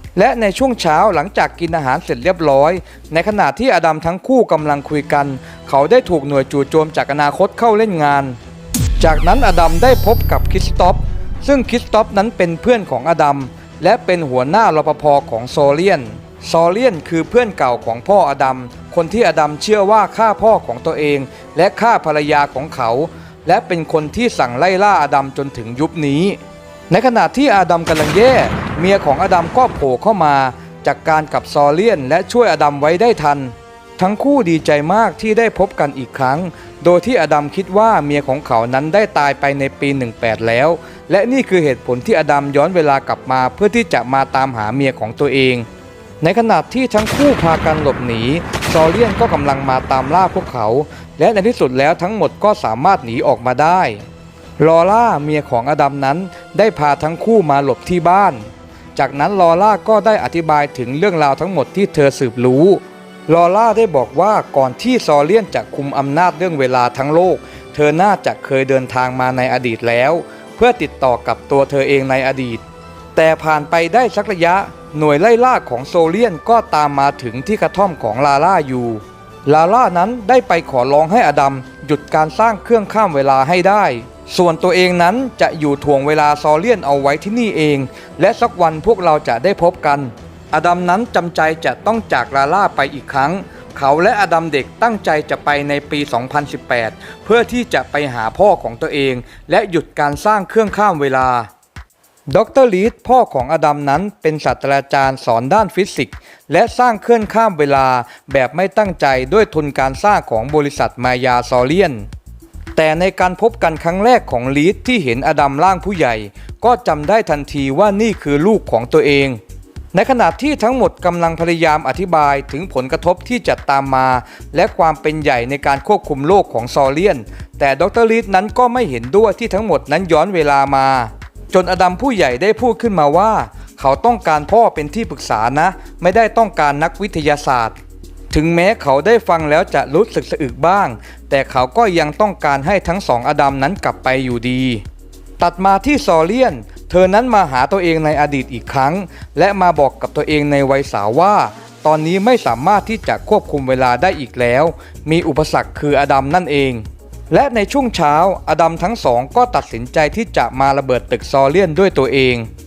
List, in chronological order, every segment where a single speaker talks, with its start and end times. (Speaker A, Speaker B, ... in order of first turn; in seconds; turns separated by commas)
Speaker A: 0.1-8.3, Speaker A: 9.0-26.4, Speaker A: 26.9-45.6, Speaker A: 46.2-54.0, Speaker A: 54.6-72.6, Speaker A: 73.1-101.5, Speaker A: 102.3-112.0, Speaker A: 112.8-119.4, Speaker A: 119.9-137.8, Speaker A: 138.3-144.8, Speaker A: 145.4-162.5